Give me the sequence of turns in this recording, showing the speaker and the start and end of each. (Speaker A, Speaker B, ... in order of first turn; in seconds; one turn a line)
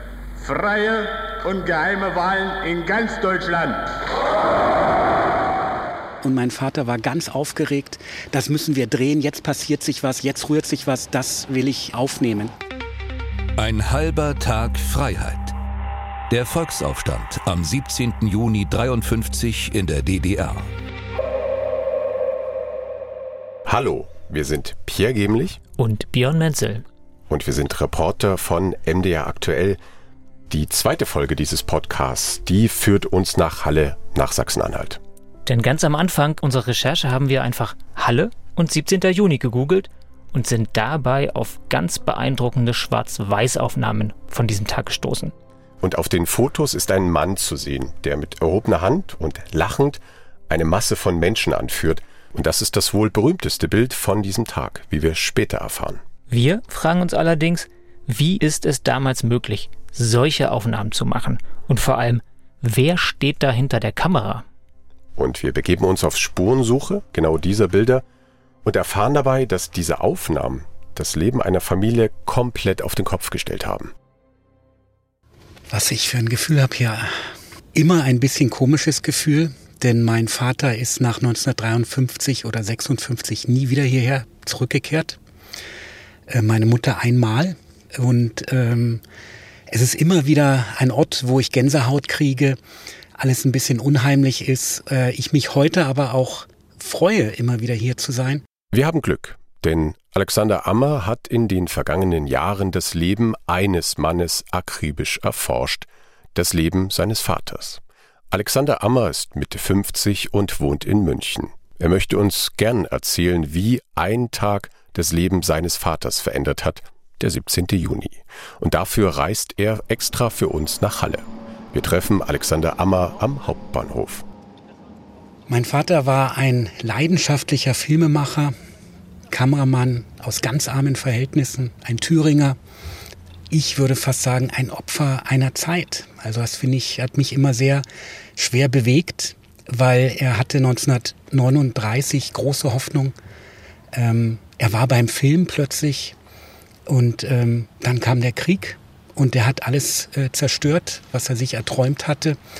Speaker A: 0.4-4.0
Speaker B: 6.2-12.5
Speaker C: 13.6-15.6
Speaker C: 16.3-20.7
Speaker D: 23.6-25.6
Speaker E: 25.8-26.8
Speaker D: 27.3-29.8
Speaker D: 30.5-35.0
Speaker E: 35.5-45.3
Speaker D: 45.8-56.0
Speaker E: 56.3-64.4
Speaker D: 65.2-68.0
Speaker D: 68.6-73.9
Speaker B: 75.7-77.1
Speaker B: 77.7-85.2
Speaker B: 86.3-89.0
Speaker B: 89.7-92.6
Speaker B: 93.2-98.4
Speaker D: 98.7-107.8
Speaker D: 108.3-124.2
Speaker B: 125.5-128.5
Speaker B: 129.3-132.6
Speaker B: 133.5-137.8
Speaker B: 138.3-143.1
Speaker B: 143.9-146.2
Speaker B: 146.9-152.4